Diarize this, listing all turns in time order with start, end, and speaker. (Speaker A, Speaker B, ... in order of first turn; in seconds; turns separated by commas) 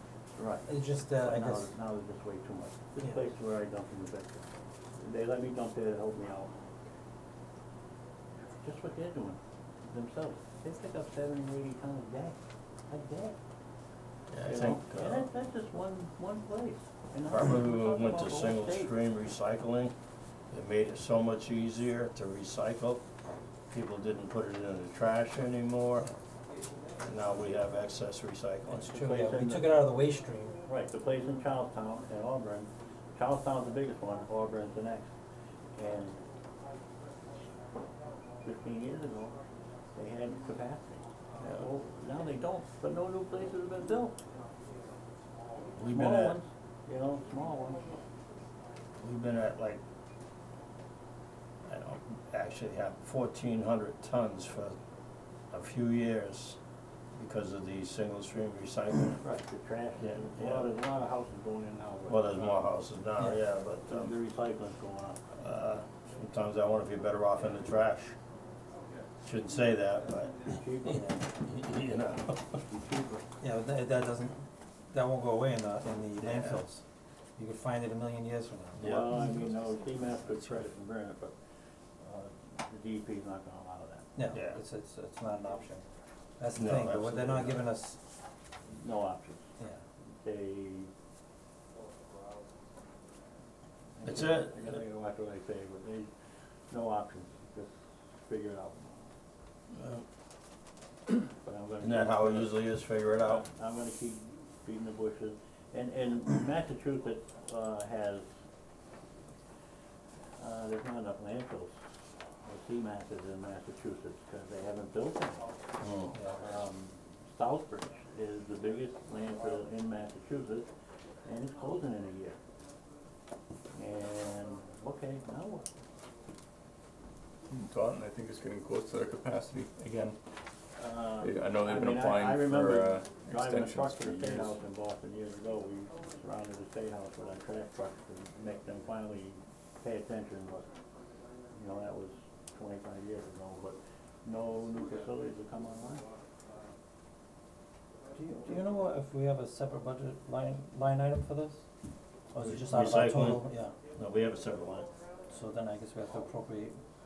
Speaker A: 0.4-6.8, Speaker B: 0.7-1.7, Speaker A: 8.4-12.4, Speaker A: 12.9-13.4, Speaker C: 14.3-15.3, Speaker A: 14.4-18.9, Speaker C: 17.3-19.9, Speaker C: 20.5-23.0, Speaker C: 23.7-26.1, Speaker C: 27.0-29.0, Speaker B: 28.8-30.6, Speaker A: 28.9-29.8, Speaker A: 30.7-35.1, Speaker A: 35.7-36.2, Speaker A: 38.4-39.4, Speaker A: 40.0-44.2, Speaker C: 41.4-41.7, Speaker C: 45.8-46.4, Speaker A: 45.9-48.0, Speaker C: 49.0-49.8, Speaker C: 51.6-54.8, Speaker C: 55.5-56.6, Speaker C: 57.1-59.2, Speaker A: 59.2-62.8, Speaker C: 60.0-60.7, Speaker C: 62.1-64.2, Speaker A: 63.9-65.2, Speaker C: 65.4-68.2, Speaker C: 69.2-70.5, Speaker A: 70.4-71.2, Speaker B: 70.9-71.2, Speaker C: 71.4-72.6, Speaker A: 72.7-73.3, Speaker B: 73.4-76.8, Speaker C: 76.2-76.6, Speaker B: 77.4-79.3, Speaker C: 78.8-79.3, Speaker A: 78.8-81.4, Speaker A: 82.0-84.1, Speaker B: 84.2-85.8, Speaker C: 84.3-84.6, Speaker B: 86.4-88.0, Speaker C: 86.6-87.7, Speaker A: 88.7-89.5, Speaker B: 89.6-89.8, Speaker A: 90.2-90.9, Speaker A: 94.0-96.1, Speaker C: 94.0-94.7, Speaker A: 96.7-99.1, Speaker C: 99.7-100.0, Speaker A: 101.4-108.3, Speaker C: 101.8-103.4, Speaker A: 110.4-111.8, Speaker A: 112.4-115.5, Speaker C: 115.8-116.1, Speaker B: 116.1-116.4, Speaker A: 116.4-120.7, Speaker A: 121.2-122.4, Speaker A: 123.7-125.7, Speaker D: 127.5-130.2, Speaker A: 130.8-140.7, Speaker D: 131.2-134.6, Speaker A: 141.5-146.1, Speaker B: 148.2-151.6, Speaker B: 152.3-153.7, Speaker C: 152.4-154.9, Speaker B: 155.3-156.8